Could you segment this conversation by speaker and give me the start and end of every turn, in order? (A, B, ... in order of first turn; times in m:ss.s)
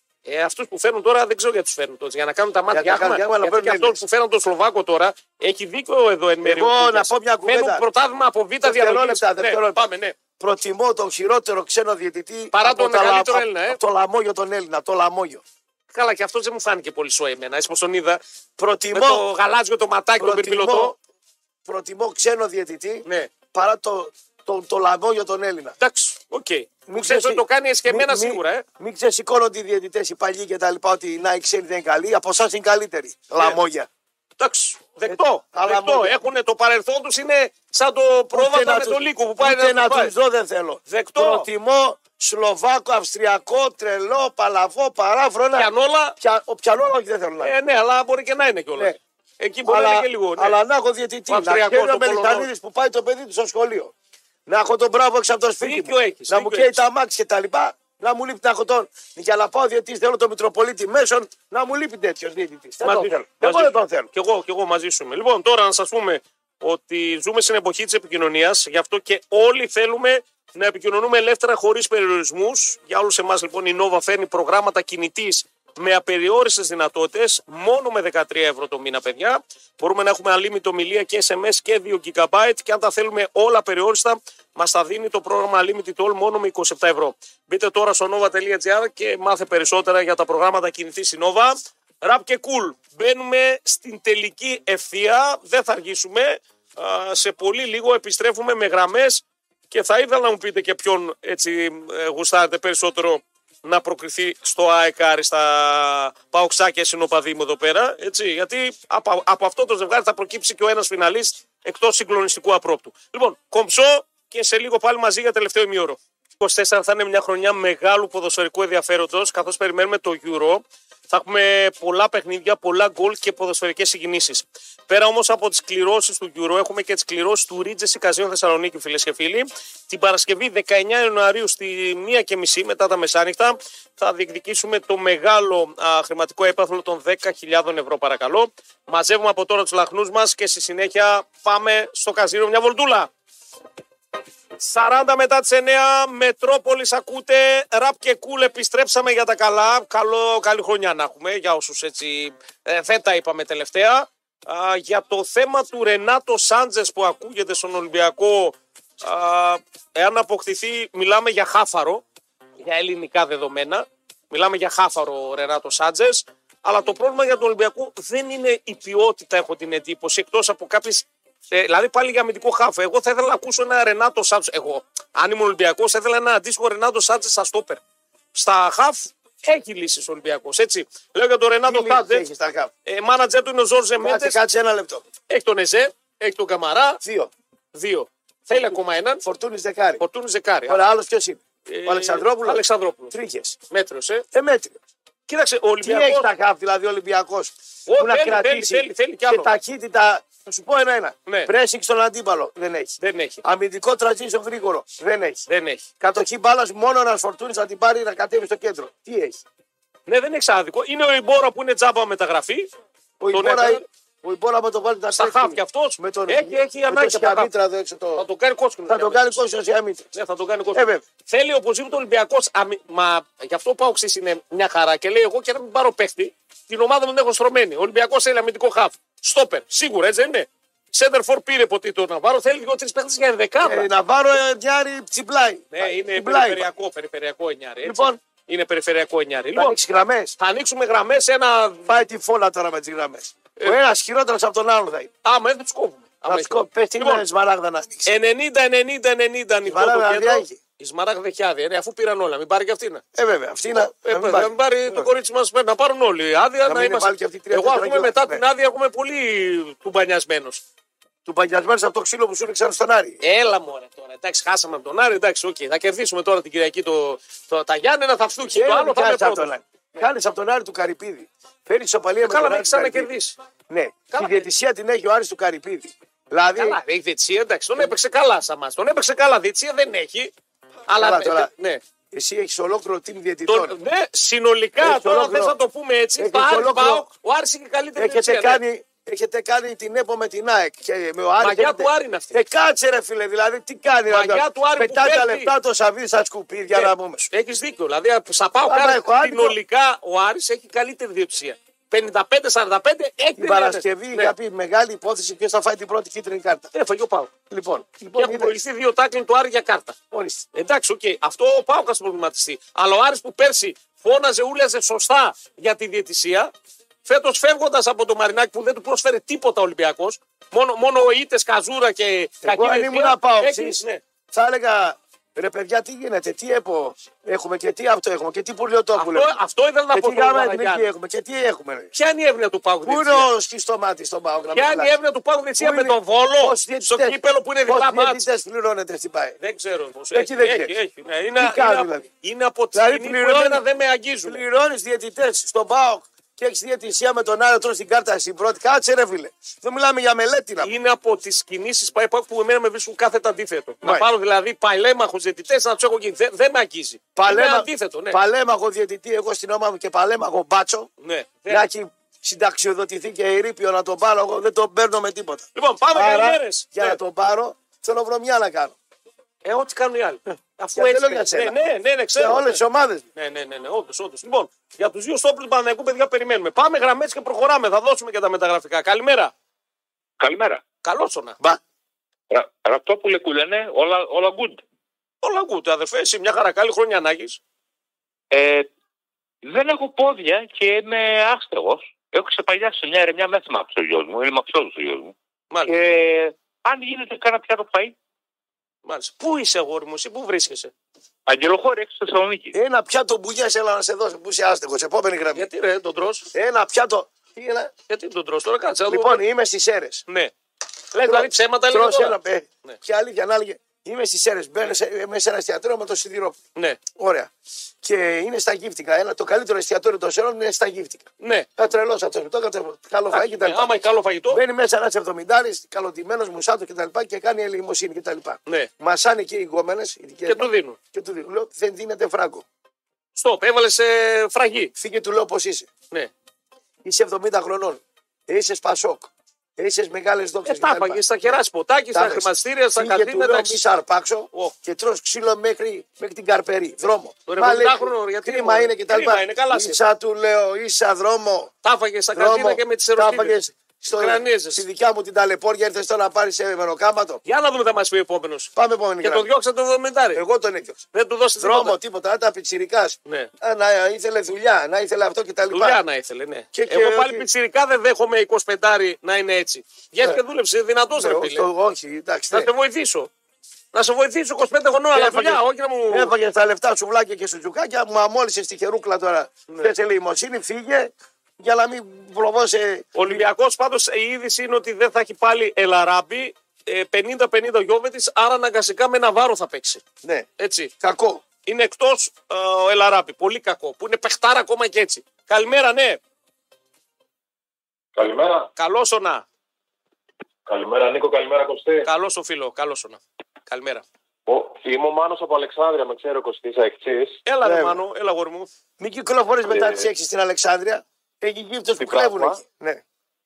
0:00.2-0:10.2 A
0:02.7-0:04.0 B
0:06.4-0:07.8 B
0:08.6-0:09.9 B
0:10.4-0:15.4 B
0:12.5-0:13.8 A
0:15.9-0:18.2 A
0:18.6-0:19.2 B
0:18.9-0:20.9 A
0:20.2-0:20.9 B
0:21.6-0:25.8 B
0:23.0-0:23.3 A
0:25.8-0:28.6 A
0:26.9-0:33.9 B
0:34.4-0:40.1 A
0:35.0-0:36.1 B
0:38.3-0:47.5 B
0:40.9-0:41.5 A
0:45.6-0:46.2 A
0:47.4-0:50.6 A
0:49.6-0:53.9 B
0:51.3-0:52.5 A
0:54.5-1:04.1 B
0:55.6-0:56.8 A
1:02.8-2:23.1 A
2:24.6-2:42.0 A
2:42.6-2:57.8 A
2:58.3-3:02.2 A
3:01.6-3:02.7 B
3:02.8-3:04.4 A
3:04.0-3:05.0 B
3:05.3-3:07.0 A
3:07.0-3:07.3 B
3:07.7-3:09.2 A
3:09.2-3:10.0 B
3:10.0-3:10.8 A
3:10.7-3:13.6 B
3:11.7-3:13.1 A
3:13.7-3:14.2 A
3:14.3-3:14.8 B
3:15.3-3:16.3 A
3:15.8-3:25.5 B
3:17.9-3:19.5 A
3:21.3-3:21.5 A
3:23.0-3:23.4 A
3:25.5-3:25.8 A
3:26.0-3:29.4 B
3:30.1-3:32.7 A
3:33.2-3:38.2 B
3:33.3-3:33.8 A
3:35.2-3:37.5 A
3:38.2-3:39.3 A
3:38.9-3:40.1 B
3:40.1-3:53.9 A
3:40.7-3:41.0 B
3:53.6-3:56.7 B
3:55.7-3:59.8 A
3:57.8-3:58.2 B
3:59.5-4:00.3 B
4:00.4-4:01.9 A
4:01.9-4:05.1 B
4:05.2-4:07.2 A
4:06.2-4:08.1 B
4:08.0-4:13.0 A
4:09.6-4:10.6 B
4:13.1-4:15.1 B
4:14.0-4:20.6 A
4:16.6-4:18.4 B
4:21.2-4:23.2 B
4:23.2-4:29.5 A
4:28.5-4:33.1 B
4:32.2-4:33.4 A
4:33.7-4:36.8 B
4:34.1-4:34.5 A
4:36.5-4:40.3 A
4:40.9-4:41.8 A
4:41.0-4:41.5 B
4:42.1-4:43.7 B
4:43.5-4:48.6 A
4:44.8-4:45.6 B
4:46.2-4:47.1 B
4:48.0-4:57.3 B
4:51.4-4:52.3 A
4:54.1-4:55.5 A
4:56.7-5:04.3 A
4:58.6-4:59.6 B
5:03.4-5:06.7 B
5:06.7-5:07.3 A
5:07.5-5:08.6 B
5:08.2-5:10.0 A
5:10.1-5:10.4 B
5:10.5-5:16.5 A
5:17.0-5:24.0 A
5:22.4-5:23.8 B
5:24.3-5:29.3 B
5:28.9-5:30.9 A
5:29.9-5:31.9 B
5:31.9-5:33.3 A
5:32.8-5:34.9 B
5:34.5-5:38.2 A
5:35.6-5:39.4 B
5:39.4-5:44.4 A
5:40.1-5:40.7 B
5:41.4-5:42.1 B
5:42.7-5:43.6 B
5:44.2-5:50.7 B
5:50.6-5:58.2 A
5:57.2-6:00.9 B
6:01.0-6:01.7 A
6:01.5-6:08.7 B
6:05.5-6:07.0 A
6:09.4-6:12.6 A
6:10.3-6:11.6 B
6:12.1-6:13.0 B
6:13.2-6:19.3 A
6:20.2-6:20.6 C
6:20.8-6:21.4 A
6:22.3-6:24.6 C
6:25.2-6:27.4 A
6:28.3-6:28.7 C
6:29.4-6:35.1 C
6:35.7-6:37.9 C
6:38.8-6:40.7 A
6:41.2-6:42.5 C
6:42.5-6:45.5 B
6:45.3-6:46.3 A
6:46.3-6:47.7 B
6:47.9-6:49.2 A
6:48.9-6:50.0 B
6:50.1-6:50.3 A
6:50.9-6:52.8 A
6:51.0-6:56.4 B
6:57.0-6:57.3 B
6:57.8-7:03.7 B
7:01.2-7:01.5 A
7:03.1-7:04.4 A
7:04.3-7:12.4 B
7:10.2-7:10.8 A
7:13.2-7:14.7 A
7:14.8-7:15.7 B
7:16.8-7:21.3 B
7:20.4-7:23.6 A
7:21.9-7:31.5 B
7:27.3-7:29.8 A
7:31.6-7:33.4 A
7:32.1-7:37.2 B
7:33.9-7:34.6 A
7:37.2-7:40.2 A
7:38.6-7:39.3 B
7:40.1-7:40.8 B
7:40.9-7:41.8 A
7:41.4-7:45.8 B
7:45.5-7:51.5 A
7:46.5-7:47.3 B
7:50.9-7:52.5 B
7:52.3-7:53.1 A
7:53.7-7:56.1 A
7:54.9-8:03.2 B
8:02.9-8:09.8 A
8:10.4-8:10.7 A
8:10.8-8:11.2 B
8:11.4-8:16.0 A
8:18.0-8:18.5 D
8:18.6-8:19.2 A
8:20.5-8:21.9 D
8:21.8-8:23.8 A
8:24.2-8:27.2 D
8:27.2-8:28.5 A
8:27.4-8:27.8 B
8:28.8-8:32.8 B
8:29.5-8:29.9 D
8:31.8-8:32.4 D